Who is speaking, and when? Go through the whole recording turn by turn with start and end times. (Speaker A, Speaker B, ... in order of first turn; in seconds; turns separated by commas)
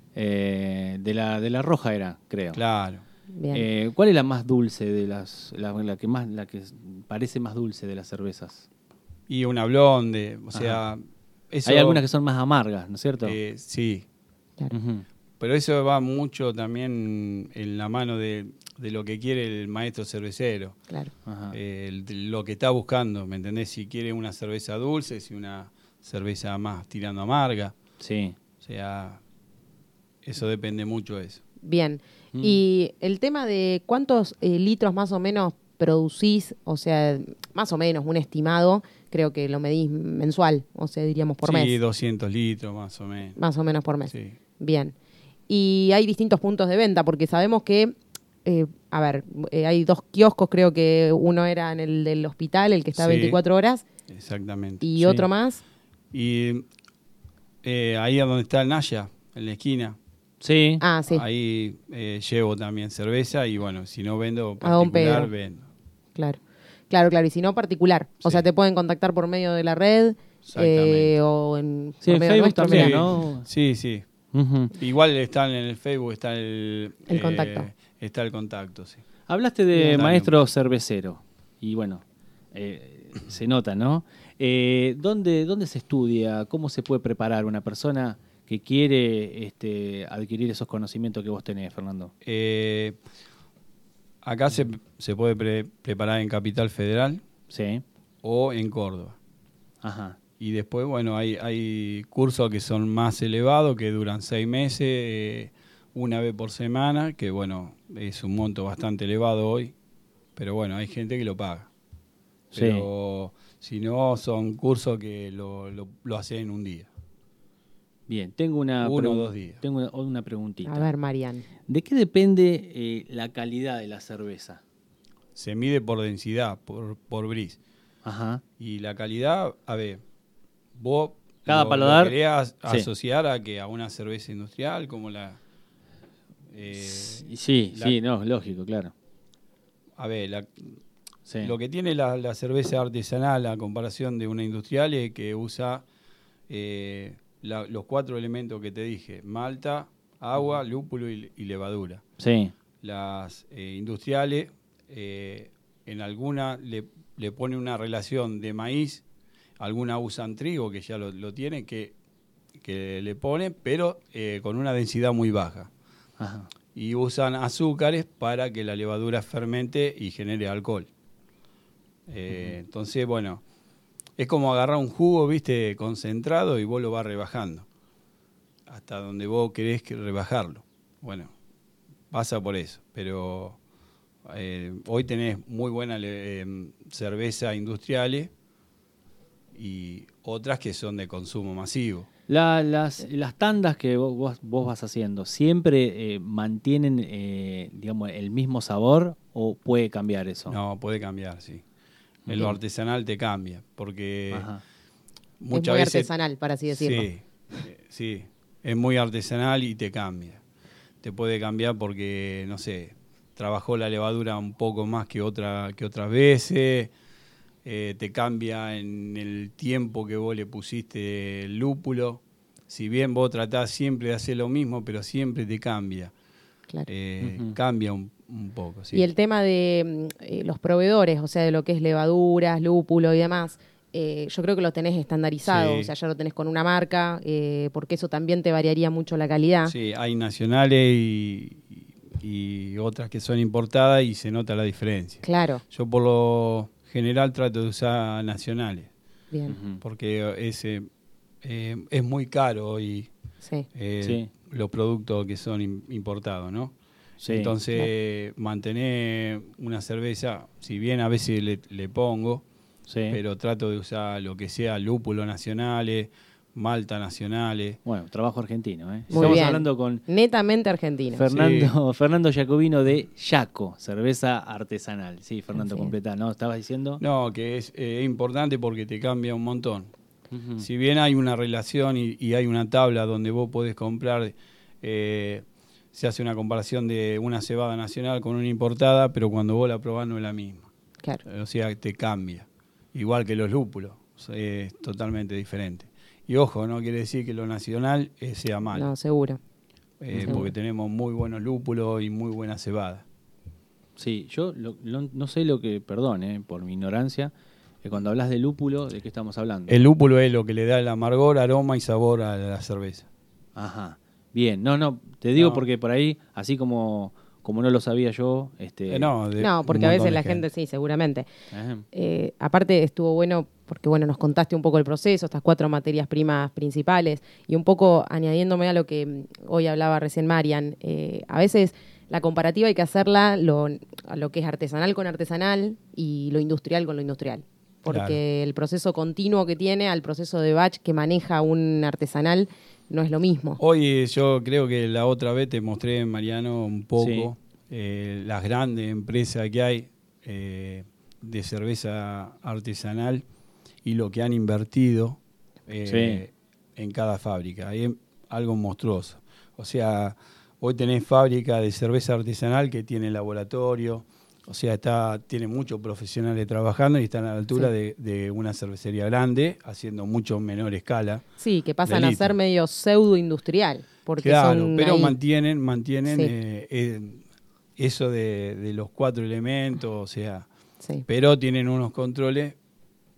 Speaker A: 0.1-2.6, Speaker B: 2.5-3.0, Speaker C: 3.3-3.7, Speaker A: 3.5-8.7, Speaker B: 9.3-12.0, Speaker A: 10.5-10.8, Speaker A: 11.7-13.4, Speaker B: 13.2-14.1, Speaker A: 14.7-15.1, Speaker B: 15.4-20.8, Speaker A: 21.3-21.6, Speaker B: 21.5-27.8, Speaker A: 28.0-28.4, Speaker B: 28.6-29.2, Speaker B: 30.2-31.4, Speaker C: 31.6-41.8, Speaker A: 32.3-32.6, Speaker B: 41.4-43.4, Speaker C: 43.4-44.9, Speaker B: 44.1-44.4, Speaker C: 45.5-53.8, Speaker B: 53.0-53.4, Speaker B: 54.1-54.9, Speaker C: 54.8-55.6, Speaker A: 55.0-55.3, Speaker B: 56.1-56.6, Speaker B: 57.6-60.0, Speaker A: 60.4-60.8, Speaker C: 60.8-61.2, Speaker B: 61.1-65.7, Speaker C: 64.6-65.3, Speaker C: 66.9-73.1, Speaker B: 70.5-71.1, Speaker A: 72.0-73.5, Speaker B: 72.7-74.0, Speaker A: 74.3-74.7, Speaker B: 74.7-79.0, Speaker C: 77.1-77.7, Speaker A: 79.3-82.0, Speaker B: 79.9-80.4, Speaker A: 82.5-92.1, Speaker B: 92.2-93.0, Speaker B: 94.2-97.2, Speaker A: 97.5-97.8, Speaker B: 98.2-99.2, Speaker A: 99.8-100.2, Speaker B: 100.4-109.7, Speaker B: 110.4-111.7, Speaker A: 112.5-112.9, Speaker B: 112.5-116.9, Speaker A: 118.1-120.9, Speaker B: 118.8-119.6, Speaker C: 120.7-121.5, Speaker A: 121.7-124.6, Speaker B: 125.3-127.6, Speaker A: 128.0-128.4, Speaker B: 128.6-130.0, Speaker B: 130.8-135.4, Speaker A: 131.5-132.9, Speaker B: 136.5-138.0, Speaker A: 136.9-138.9, Speaker B: 140.0-140.8, Speaker A: 141.3-141.5, Speaker B: 141.4-145.9, Speaker B: 146.5-152.0, Speaker A: 152.2-152.5, Speaker B: 152.8-159.0, Speaker B: 159.6-162.0, Speaker B: 162.6-165.7, Speaker A: 166.2-166.5, Speaker B: 166.8-170.9, Speaker B: 172.1-173.4, Speaker A: 172.3-172.6, Speaker B: 174.2-177.7, Speaker B: 178.7-181.3, Speaker B: 182.1-183.6, Speaker B: 184.2-188.3, Speaker B: 189.6-192.1, Speaker A: 192.3-200.6, Speaker B: 200.5-201.6, Speaker A: 202.3-202.6, Speaker B: 202.3-204.5, Speaker A: 204.3-204.6, Speaker B: 205.4-206.1, Speaker C: 205.5-207.6, Speaker B: 206.7-210.4, Speaker B: 211.0-216.9, Speaker B: 217.7-226.1, Speaker B: 226.9-229.1, Speaker A: 227.2-227.6, Speaker C: 228.9-239.7, Speaker B: 235.4-235.9, Speaker B: 239.7-248.9, Speaker C: 245.2-245.6, Speaker C: 249.3-249.6, Speaker A: 249.5-249.8, Speaker B: 249.8-250.9, Speaker B: 251.4-253.1, Speaker C: 253.4-253.7, Speaker B: 253.7-256.8, Speaker A: 254.0-254.3, Speaker A: 257.2-257.5, Speaker B: 257.3-262.4, Speaker A: 262.9-263.2, Speaker B: 263.1-267.8, Speaker A: 267.9-270.0, Speaker B: 269.1-269.4, Speaker C: 269.1-271.3, Speaker A: 271.1-277.0, Speaker B: 271.3-271.7, Speaker C: 275.5-275.9, Speaker B: 277.0-279.9, Speaker A: 280.3-280.7, Speaker B: 280.6-290.7, Speaker B: 291.2-298.9, Speaker C: 298.7-299.4, Speaker B: 300.0-303.1, Speaker A: 300.1-300.5, Speaker A: 304.0-309.8, Speaker B: 309.7-313.1, Speaker A: 313.6-319.1, Speaker B: 315.4-315.6, Speaker B: 318.9-320.4, Speaker C: 319.4-321.3, Speaker A: 321.5-321.9, Speaker C: 321.9-343.6, Speaker B: 337.9-338.2, Speaker B: 343.6-353.2, Speaker A: 347.0-347.3, Speaker B: 353.8-371.2, Speaker A: 355.9-356.2, Speaker C: 371.4-375.1, Speaker B: 371.9-372.3, Speaker B: 374.2-377.2, Speaker C: 376.1-376.3, Speaker B: 377.8-380.5, Speaker B: 381.1-382.6